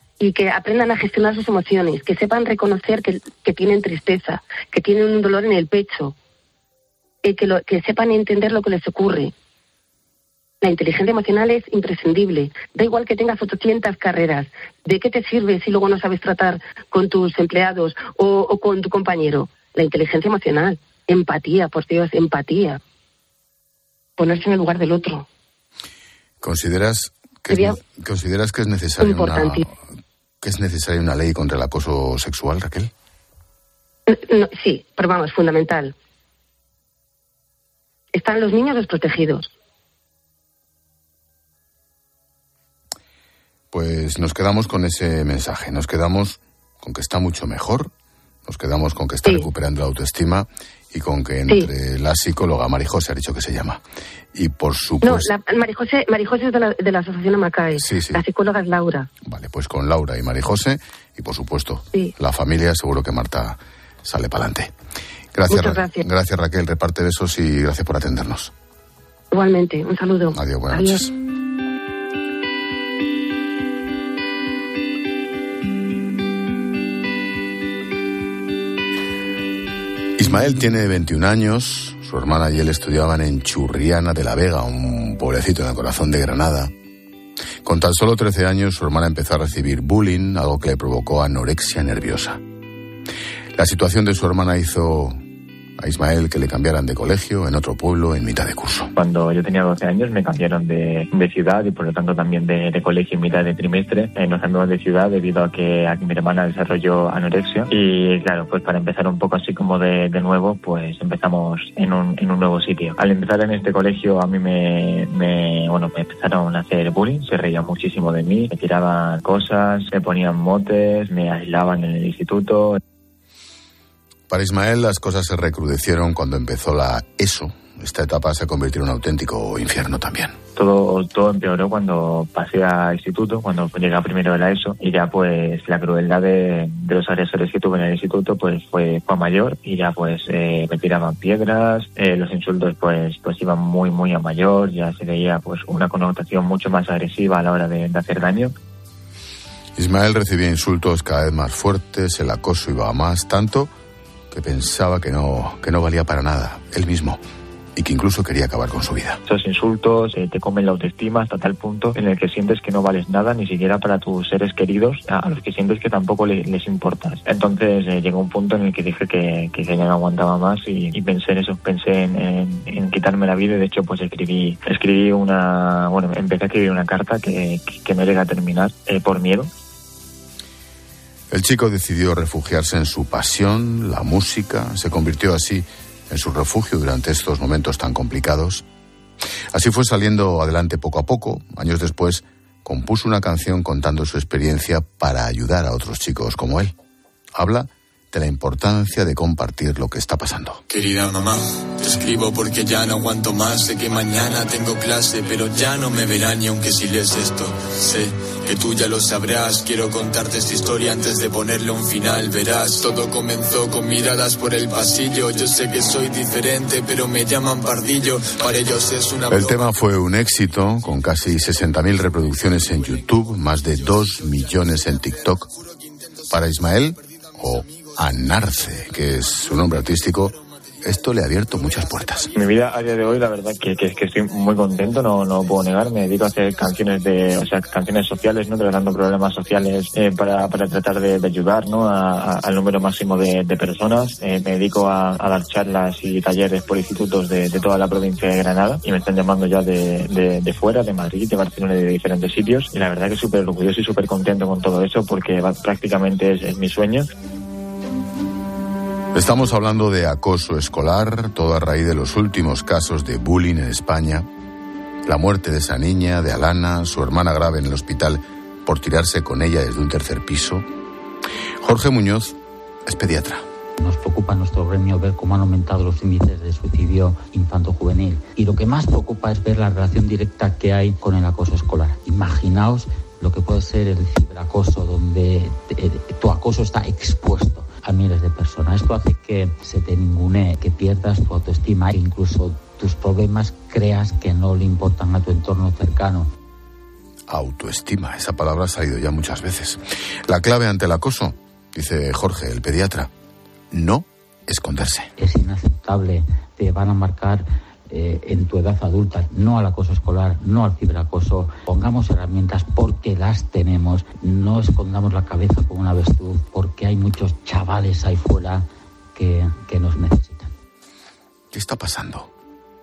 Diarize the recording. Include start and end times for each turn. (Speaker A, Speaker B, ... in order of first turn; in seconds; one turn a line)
Speaker A: 0.2-6.2
Speaker A: 7.2-9.3
Speaker A: 10.6-22.8
Speaker A: 24.2-25.3
Speaker B: 26.4-29.8
Speaker A: 27.5-27.8
Speaker A: 29.0-29.6
Speaker B: 30.4-32.9
Speaker A: 34.1-35.9
Speaker A: 38.1-39.5
Speaker B: 43.7-47.9
Speaker B: 48.5-53.8
Speaker B: 54.3-55.3
Speaker A: 55.0-59.1
Speaker B: 57.8-58.2
Speaker B: 59.2-64.7
Speaker B: 65.3-68.5
Speaker A: 65.5-66.0
Speaker A: 69.3-71.0
Speaker B: 70.3-71.1
Speaker B: 80.2-86.7
Speaker B: 87.6-92.4
Speaker B: 93.6-95.2
Speaker B: 95.8-98.9
Speaker C: 99.0-122.8
Speaker B: 124.3-130.4
Speaker C: 130.6-148.5
Speaker B: 149.8-153.7
Speaker B: 154.3-157.2
Speaker B: 157.8-159.2
Speaker C: 159.3-179.5
Speaker B: 181.3-188.6
Speaker B: 189.5-196.7
Speaker B: 197.3-200.6
Speaker D: 200.7-219.7
Speaker B: 219.3-225.5
Speaker B: 226.3-232.3
Speaker C: 232.3-257.1
Speaker B: 259.1-264.3
Speaker B: 265.1-270.7
Speaker B: 271.6-273.4
Speaker E: 273.8-296.3
Speaker B: 297.3-303.1
Speaker B: 303.7-305.1
Speaker E: 305.2-320.5
Speaker B: 321.5-322.3